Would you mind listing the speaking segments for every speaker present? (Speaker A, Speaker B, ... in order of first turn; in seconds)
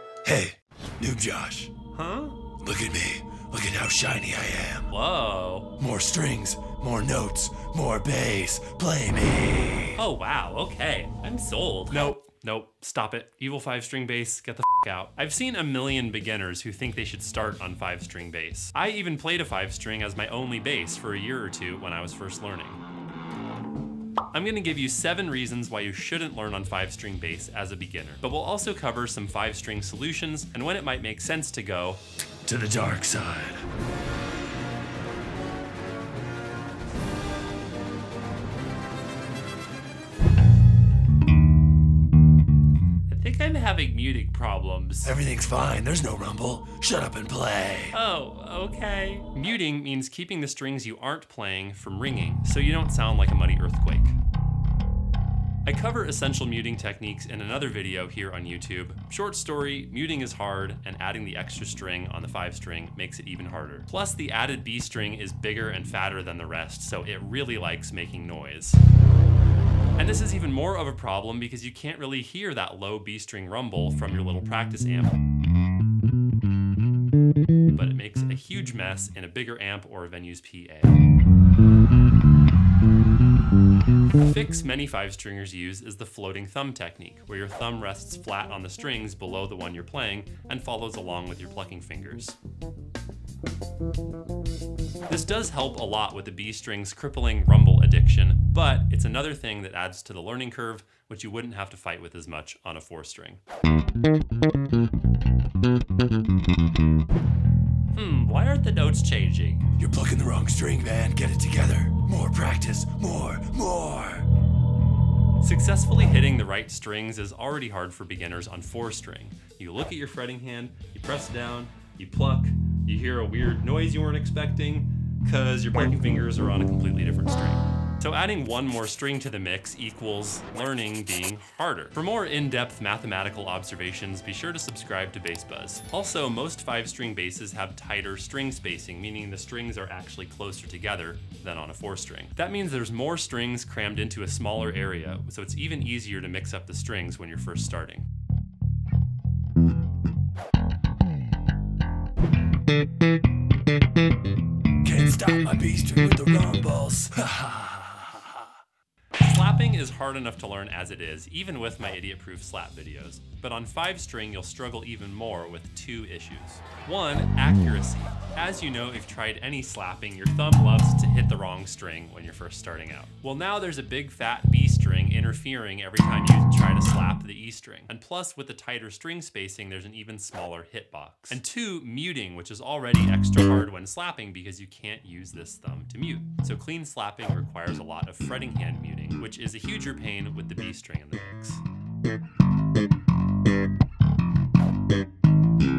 Speaker A: 0.2-1.7, 2.6-4.9, 5.8-10.0, 32.4-33.7, 45.0-48.0, 109.8-114.3, 154.8-158.5
Speaker B: 1.9-2.4, 4.9-5.7, 9.9-22.8, 24.3-32.0, 43.1-45.2, 47.9-54.2, 55.6-68.8, 70.0-75.2, 77.7-81.0, 84.1-92.3, 95.1-103.4, 107.9-109.7, 115.4-148.1, 159.2-191.6